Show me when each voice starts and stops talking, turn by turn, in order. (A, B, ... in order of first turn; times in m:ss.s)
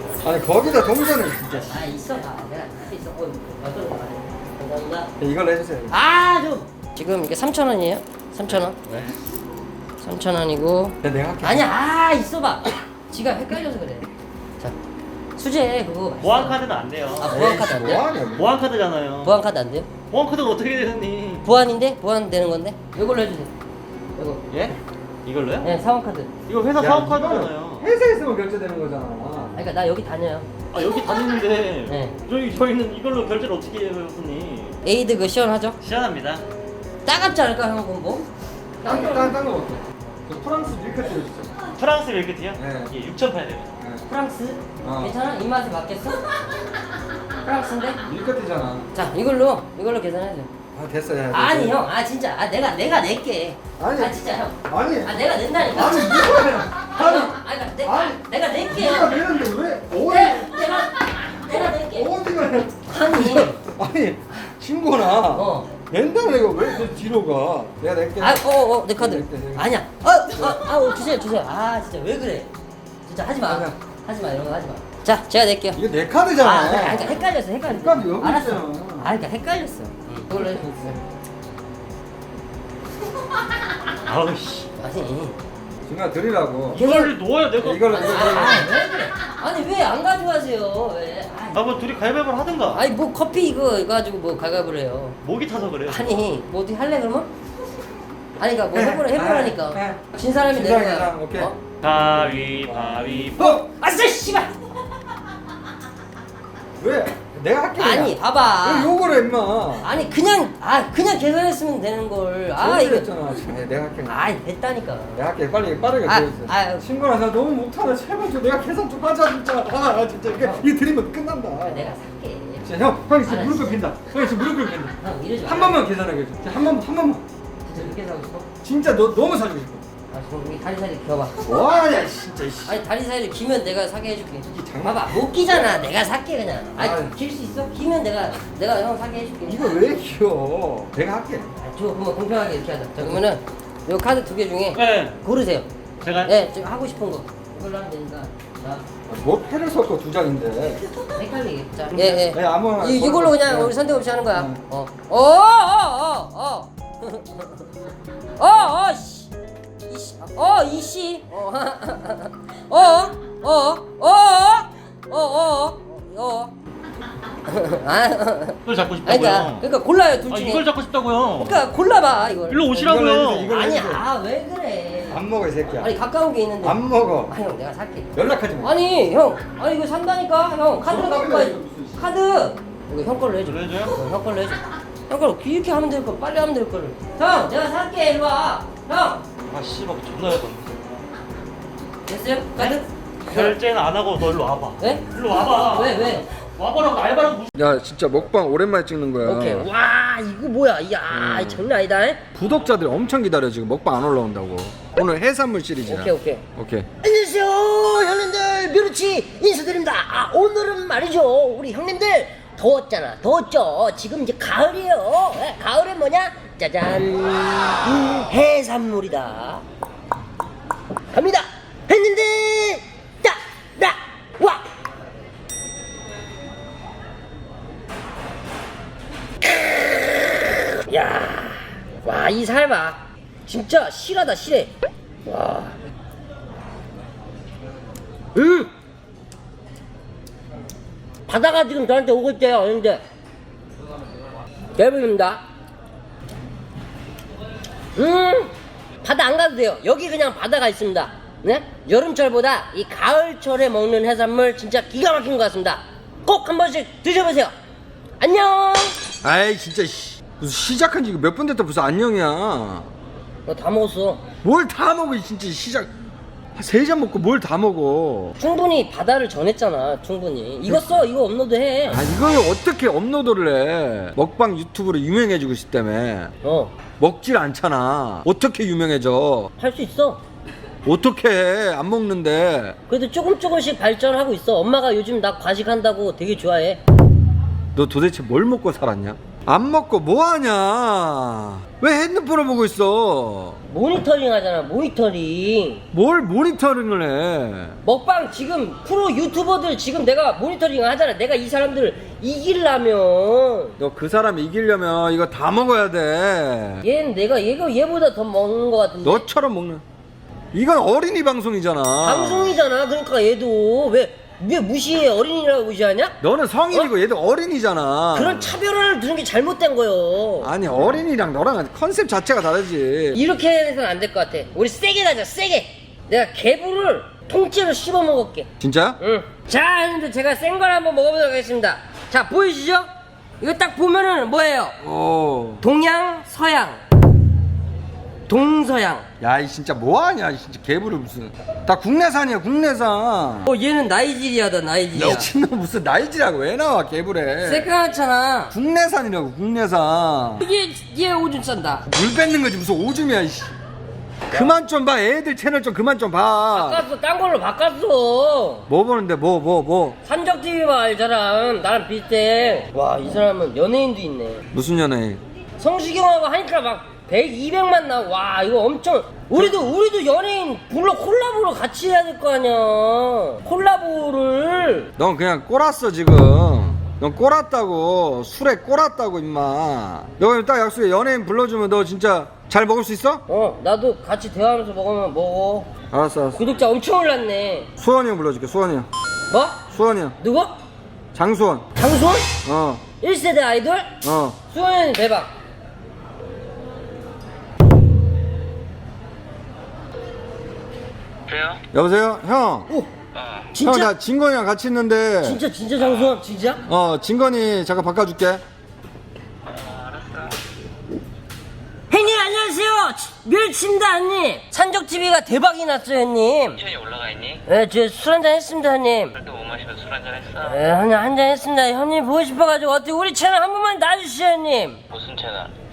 0:00.2-0:01.8 A
0:01.7-0:05.1 B
0:05.2-0:05.9 A
0:05.9-0:08.8 B
0:10.0-0:14.1 B
0:11.0-0:11.7 A
0:15.4-0:16.6 B
0:16.2-0:17.4 C
0:17.2-0:18.1 B
0:17.2-0:18.5 A
0:18.3-0:19.3 C
0:19.2-0:19.9 B
0:20.1-0:21.5 C
0:21.4-0:23.5 B
0:24.2-0:24.4 B
0:24.5-0:25.7 C
0:25.6-0:26.3 B
0:26.4-0:27.8 C
0:26.8-0:29.6 A
0:29.5-0:30.5 B
0:30.7-0:34.8 C
0:31.9-0:32.1 B
0:34.8-0:35.8 B
0:35.8-0:36.4 C
0:37.0-0:38.3 B
0:38.8-0:39.3 B
0:38.8-0:41.6 A
0:41.7-0:43.8 C
0:42.6-0:42.9 A
0:43.8-0:44.0 A
0:44.0-0:46.4 B
0:44.8-0:45.2 A
0:47.4-0:48.0 B
0:48.0-0:48.9 A
0:48.9-0:50.5 B
0:50.7-0:51.8 A
0:51.3-0:59.3 B
0:53.8-1:00.8 A
1:00.0-1:02.1 B
1:01.8-1:09.7 A
1:02.9-1:03.6 B
1:05.3-1:05.7 B
1:08.2-1:12.5 B
1:10.4-1:10.7 A
1:13.0-1:15.8 B
1:13.4-1:13.8 A
1:15.7-1:19.1 A
1:16.4-1:20.6 B
1:20.3-1:21.0 A
1:24.0-1:24.7 C
1:24.8-1:25.4 B
1:25.8-1:26.8 A
1:26.7-1:28.6 C
1:26.7-1:27.1 B
1:27.6-1:28.7 A
1:27.9-1:31.6 B
1:31.5-1:32.8 C
1:32.7-1:35.2 B
1:35.2-1:36.2 C
1:35.9-1:37.3 B
1:38.4-1:41.6 B
1:38.7-1:41.5 A
1:41.8-1:43.6 C
1:42.6-1:43.6 A
1:43.4-1:44.5 B
1:46.8-1:49.9 A
1:47.8-1:48.9 B
1:49.8-1:53.3 B
1:52.5-1:54.2 A
1:54.0-1:55.2 B
1:55.2-2:02.0 A
1:56.0-1:56.8 B
2:00.3-2:00.7 B
2:01.6-2:02.6 B
2:02.6-2:07.2 A
2:03.2-2:03.8 B
2:05.0-2:05.8 B
2:07.6-2:08.5 B
2:08.6-2:09.8 A
2:10.1-2:11.4 B
2:11.4-2:12.8 A
2:12.6-2:19.8 B
2:14.4-2:15.2 A
2:16.8-2:17.1 A
2:19.4-2:21.5 A
2:21.5-2:25.7 B
2:24.7-2:25.2 C
2:26.0-2:26.3 C
2:26.2-2:28.8 B
2:29.0-2:30.8 A
2:31.1-2:37.7 B
2:31.9-2:34.6 A
2:38.4-2:39.3 B
2:39.9-2:46.5 B
2:47.4-2:50.6 B
2:48.6-2:49.7 C
2:50.3-2:51.6 C
2:51.4-3:09.2 B
2:52.5-2:53.5 C
2:52.7-2:54.0 A
2:55.1-2:55.9 A
2:56.6-2:57.3 A
2:58.1-2:58.8 A
3:00.7-3:02.0 A
3:03.4-3:04.0 C
3:09.4-3:10.8 C
3:12.1-3:13.5 B
3:12.6-3:17.7 C
3:14.8-3:16.3 B
3:17.5-3:19.7 A
3:19.2-3:22.2 B
3:21.1-3:21.6 A
3:22.3-3:26.9 A
3:25.9-3:26.4 B
3:27.0-3:39.6 B
3:41.1-3:44.6 B
3:49.4-3:54.7 B
3:55.2-3:55.8 B
3:58.3-3:58.7 B
4:01.3-4:03.0 B
4:04.7-4:05.4 B
4:08.0-4:17.5 B
4:18.2-4:19.0 B
4:19.2-4:22.9 A
4:23.4-4:24.2 B
4:24.4-4:25.9 A
4:26.5-4:28.4 A
4:28.4-4:32.0 B
4:31.9-4:36.3 A
4:36.4-4:36.7 B
4:37.0-4:39.5 A
4:39.6-4:40.2 B
4:40.8-4:42.8 A
4:42.9-4:46.8 B
4:47.7-4:53.6 A
4:53.7-4:55.9 B
4:55.9-4:57.8 A
4:57.8-5:03.8 B
5:03.8-5:06.8 A
5:06.8-5:09.2 B
5:09.0-5:09.8 A
5:10.5-5:12.6 A
5:12.0-5:16.2 B
5:16.2-5:18.6 A
5:18.1-5:20.5 B
5:20.4-5:23.2 A
5:23.1-5:28.5 B
5:28.6-5:29.0 A
5:29.0-5:32.9 B
5:33.4-5:34.8 B
5:34.8-5:35.6 A
5:35.6-5:36.8 B
5:38.3-5:39.1 B
5:39.2-5:43.5 A
5:43.5-5:45.3 B
5:44.9-5:47.7 A
5:47.4-5:48.5 B
5:48.5-5:50.4 A
5:50.4-5:51.9 B
5:51.9-5:53.5 A
5:54.3-5:56.9 A
5:56.5-5:58.7 B
5:58.7-6:00.0 A
6:00.0-6:04.5 B
6:04.5-6:05.2 A
6:05.6-6:14.9 B
6:15.0-6:23.2 A
6:23.3-6:25.7 B
6:25.9-6:26.4 A
6:26.4-6:27.7 B
6:27.8-6:28.9 A
6:29.3-6:29.6 B
6:29.7-6:30.2 A
6:30.2-6:30.6 B
6:31.1-6:31.7 A
6:31.8-6:32.4 B
6:32.4-6:32.8 A
6:33.0-6:34.0 B
6:34.0-6:34.4 A
6:34.5-6:35.3 B
6:41.3-6:41.6 D
6:41.7-6:42.7 A
6:43.1-6:43.5 D
6:43.5-6:43.9 B
6:43.6-6:45.4 A
6:45.2-6:46.6 B
6:45.8-6:46.1 D
6:46.6-6:48.4 A
6:49.4-6:50.4 D
6:51.9-6:56.6 B
6:56.6-6:57.4 D
6:57.5-6:59.1 B
6:59.1-7:00.7 D
7:00.4-7:04.8 B
7:04.9-7:05.5 D